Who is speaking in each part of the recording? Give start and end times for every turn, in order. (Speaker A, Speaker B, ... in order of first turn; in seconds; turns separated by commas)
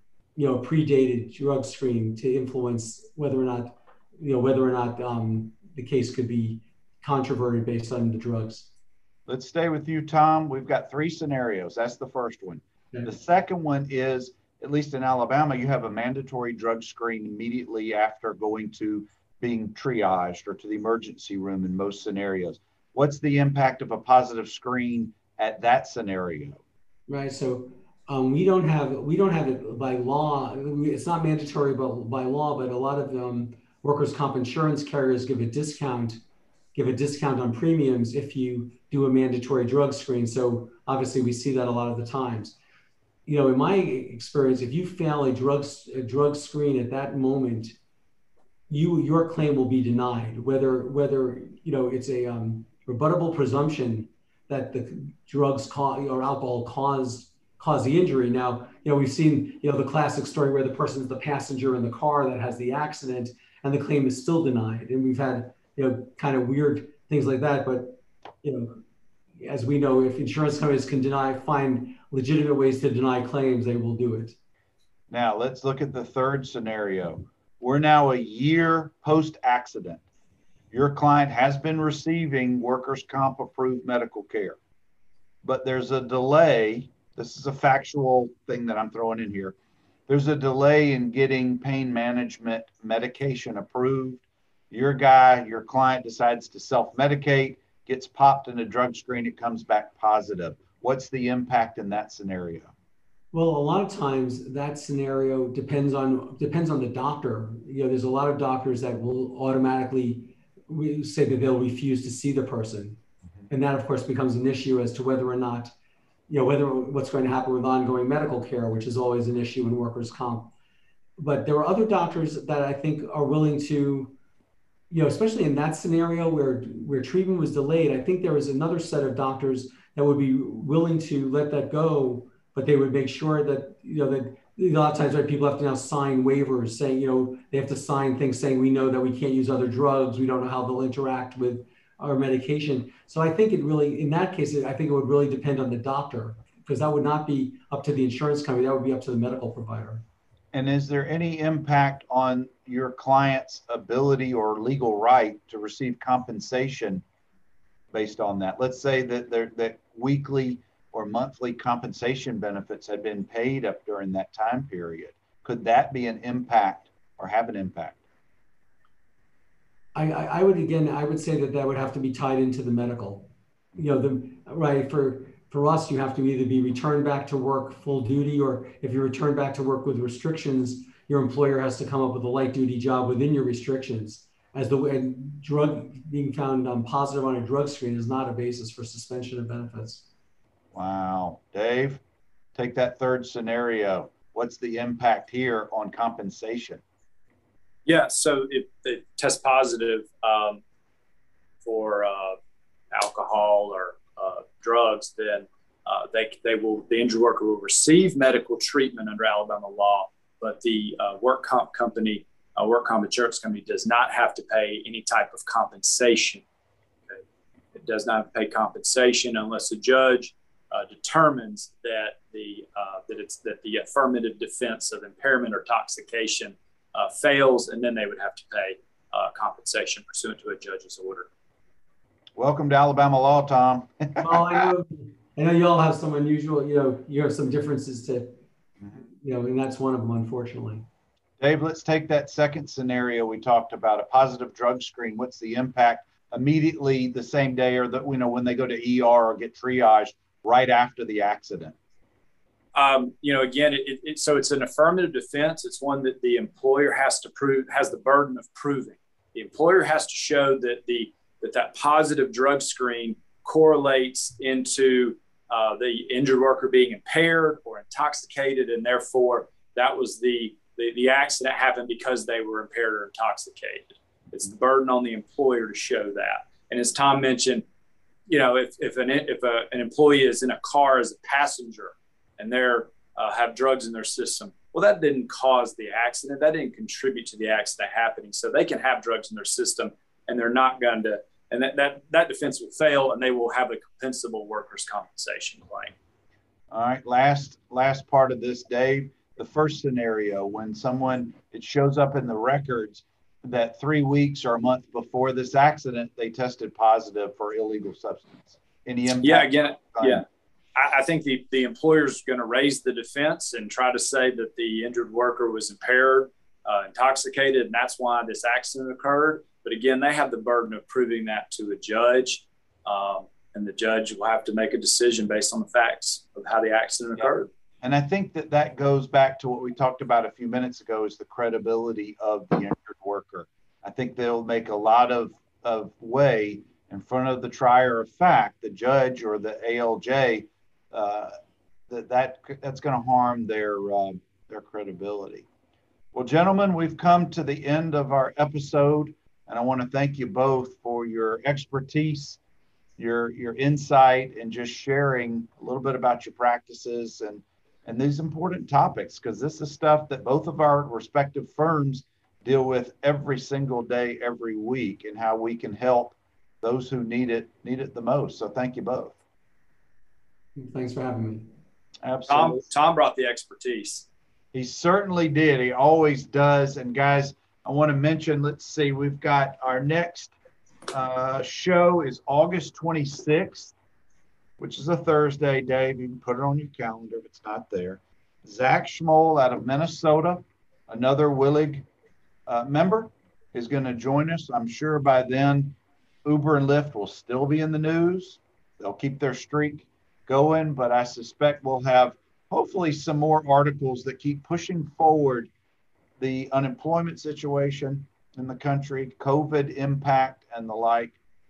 Speaker A: 0.4-8.7, Speaker B: 9.3-26.6, Speaker A: 27.1-36.2, Speaker A: 36.8-42.6, Speaker A: 43.3-47.7, Speaker A: 48.7-68.8, Speaker A: 69.4-74.3, Speaker B: 75.1-80.0, Speaker B: 80.7-84.6, Speaker B: 85.4-89.5, Speaker B: 90.1-102.7, Speaker A: 103.3-113.0, Speaker A: 113.5-115.7, Speaker A: 116.3-120.5, Speaker A: 121.2-124.1, Speaker A: 124.9-150.0, Speaker B: 150.5-157.0, Speaker B: 157.9-168.0, Speaker A: 169.9-190.1, Speaker B: 190.7-192.0, Speaker B: 192.6-196.8, Speaker C: 197.9-200.6, Speaker C: 201.6-202.4, Speaker C: 202.9-216.4, Speaker C: 217.7-231.3, Speaker B: 232.4-234.7, Speaker A: 234.2-238.4, Speaker A: 238.9-240.9, Speaker B: 241.4-251.8, Speaker C: 252.8-277.6, Speaker C: 278.3-295.9, Speaker B: 296.7-310.2, Speaker C: 309.2-310.2, Speaker C: 310.8-327.5, Speaker B: 327.8-341.3, Speaker B: 341.9-345.5, Speaker B: 346.1-352.4, Speaker B: 353.0-369.2, Speaker A: 370.6-371.5, Speaker B: 372.0-372.6, Speaker C: 372.3-374.1, Speaker B: 374.5-380.3, Speaker B: 380.9-383.7, Speaker B: 384.6-391.9, Speaker B: 392.5-405.5, Speaker B: 406.2-411.1